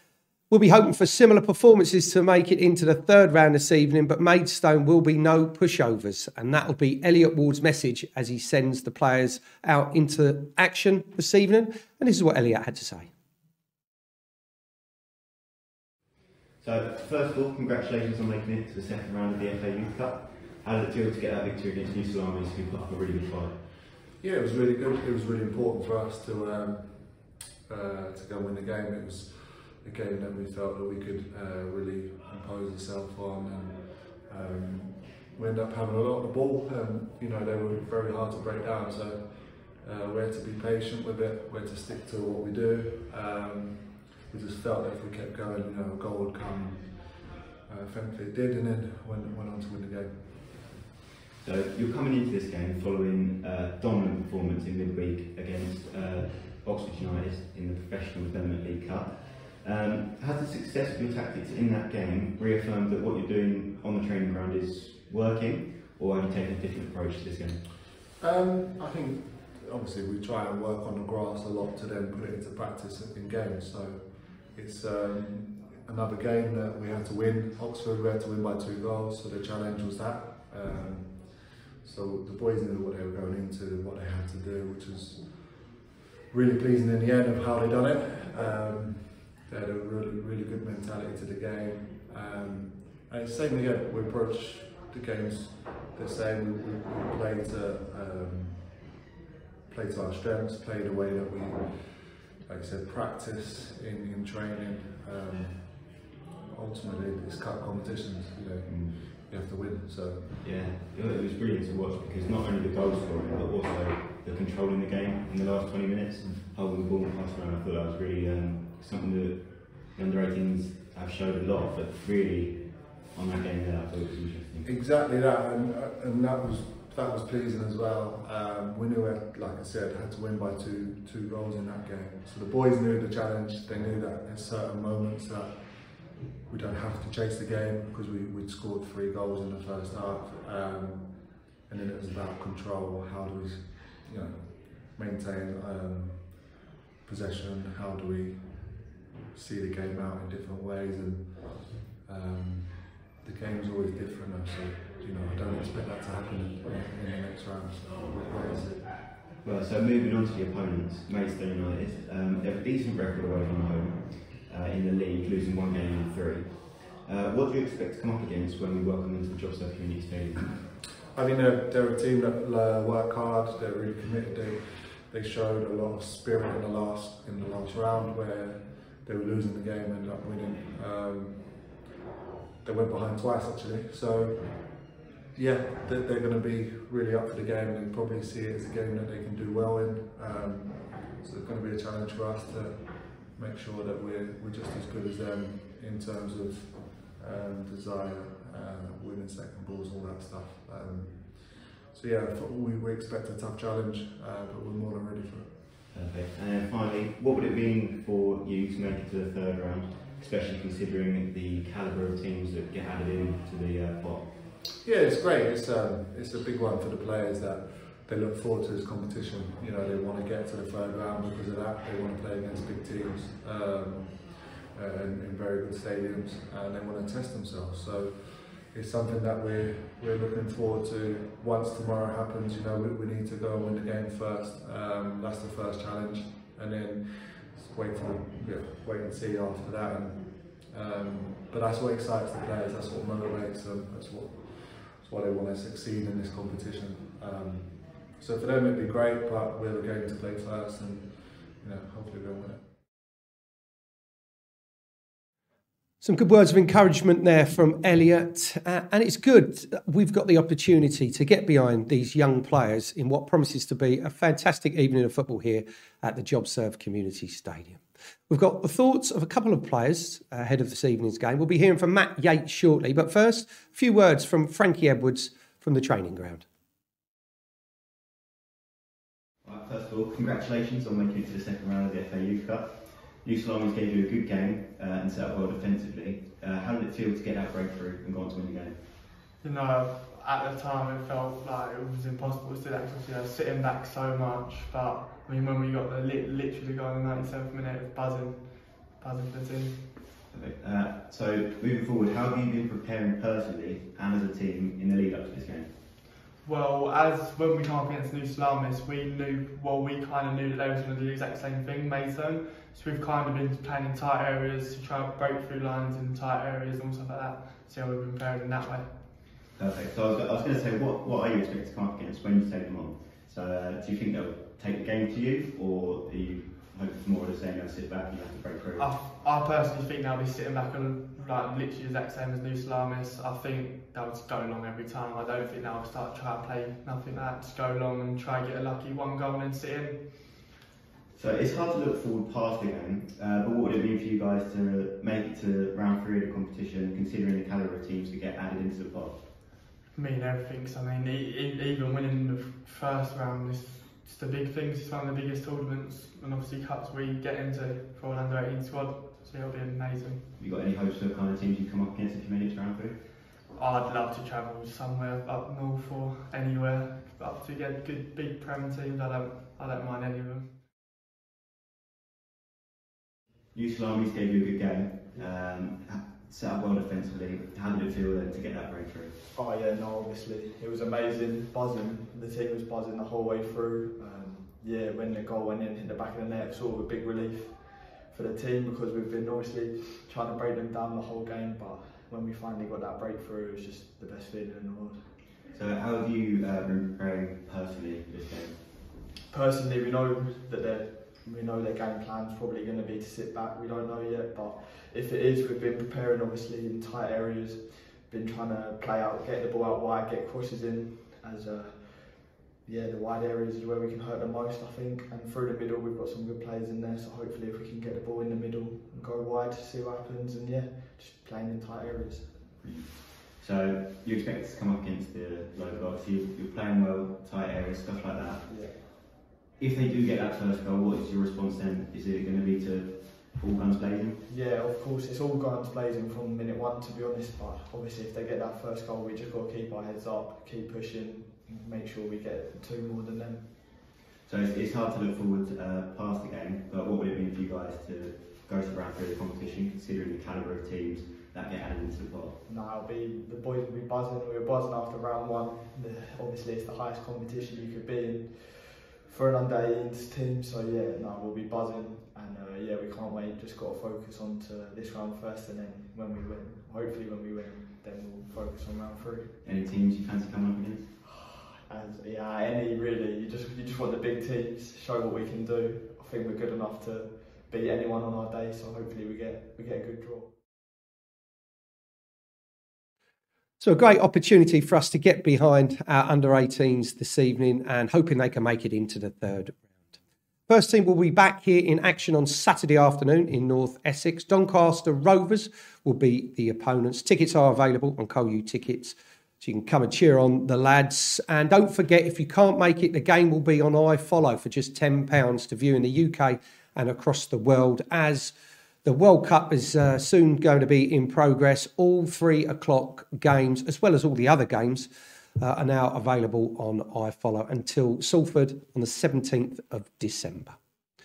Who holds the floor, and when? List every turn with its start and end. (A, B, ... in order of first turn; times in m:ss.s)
0:00.5-0:13.1 A
0:16.6-0:23.5 B
0:24.2-0:27.0 C
0:27.7-0:50.5 C
0:51.4-1:07.6 B
1:08.2-1:25.7 C
1:26.3-1:38.8 C
1:39.7-1:50.3 C
1:48.6-1:48.9 B
1:50.4-2:04.7 B
2:04.6-2:15.6 C
2:16.4-2:39.1 C
2:39.4-2:50.6 B
2:51.1-3:01.6 C
3:02.6-3:04.8 C
3:05.3-3:25.5 C
3:25.9-3:34.3 B
3:34.8-4:12.6 C
4:16.0-4:36.4 A
4:39.4-4:48.8 B
4:49.4-4:59.8 D
5:00.3-5:05.7 B
5:06.4-5:18.8 D
5:19.6-5:28.9 B
5:28.8-5:40.4 D
5:41.1-5:49.2 B
5:49.9-6:00.2 D
6:00.4-6:02.9 B
6:03.5-6:10.5 D
6:13.5-6:19.1 B
6:19.3-6:35.0 E
6:35.5-6:38.6 B
6:39.3-7:02.5 E
7:02.6-7:08.5 B
7:08.5-7:08.8 E
7:09.6-7:14.2 B
7:14.3-7:23.4 E
7:24.2-7:32.4 B
7:32.5-7:49.3 E
7:49.4-7:50.8 B
7:51.1-8:00.3 E
8:03.6-8:09.9 A
8:10.5-8:28.3 A
8:28.8-8:34.9 A
8:35.4-8:40.6 A